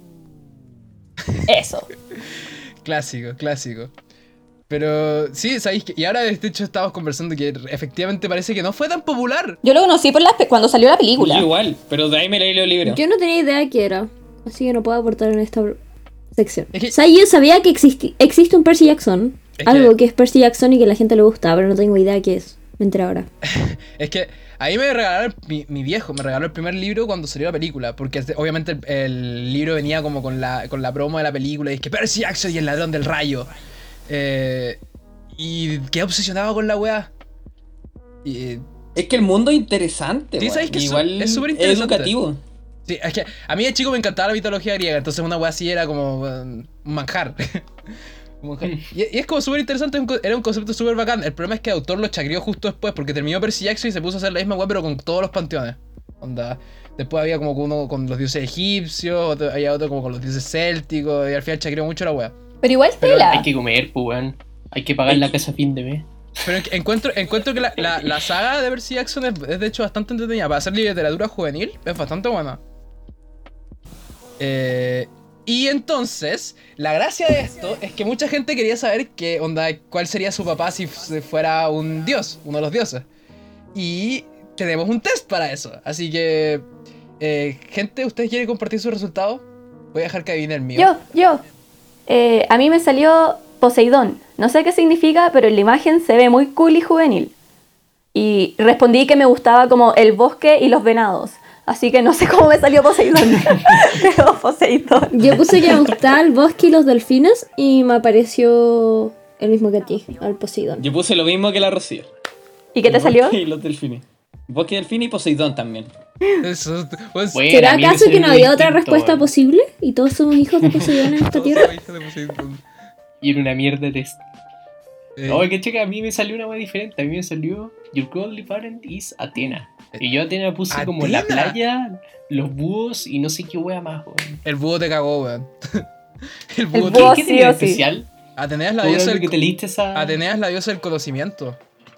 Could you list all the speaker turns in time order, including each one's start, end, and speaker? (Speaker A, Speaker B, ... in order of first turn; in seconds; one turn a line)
Speaker A: 1.5-1.9
Speaker B: 2.8-3.9
Speaker B: 4.7-9.6
Speaker A: 9.6-11.5
Speaker C: 11.2-13.0
Speaker D: 12.8-15.8
Speaker D: 16.3-23.3
Speaker B: 19.6-19.9
Speaker B: 23.4-33.5
Speaker B: 34.1-34.8
Speaker B: 35.3-37.1
Speaker B: 38.2-38.7
Speaker C: 39.0-42.4
Speaker B: 40.4-42.1
Speaker B: 42.9-47.7
Speaker B: 48.4-62.4
Speaker A: 62.6-63.5
Speaker E: 63.0-66.5
Speaker B: 66.5-72.6
Speaker B: 74.4-83.1
Speaker B: 83.7-86.7
Speaker B: 87.2-90.9
Speaker A: 90.8-91.4
Speaker A: 92.1-97.3
Speaker A: 98.1-105.3
Speaker D: 105.1-110.8
Speaker C: 110.8-112.1
Speaker A: 112.8-113.4
Speaker C: 112.9-115.9
Speaker B: 116.4-117.5
Speaker E: 117.3-119.3
Speaker D: 117.5-121.7
Speaker B: 121.2-122.6
Speaker E: 123.2-124.2
Speaker B: 125.2-125.5
Speaker E: 125.3-134.4
Speaker B: 130.7-131.6
Speaker B: 134.4-135.9
Speaker B: 136.5-137.2
Speaker A: 136.7-137.8
Speaker E: 136.9-138.1
Speaker B: 138.4-139.4
Speaker E: 138.8-140.2
Speaker B: 139.9-141.6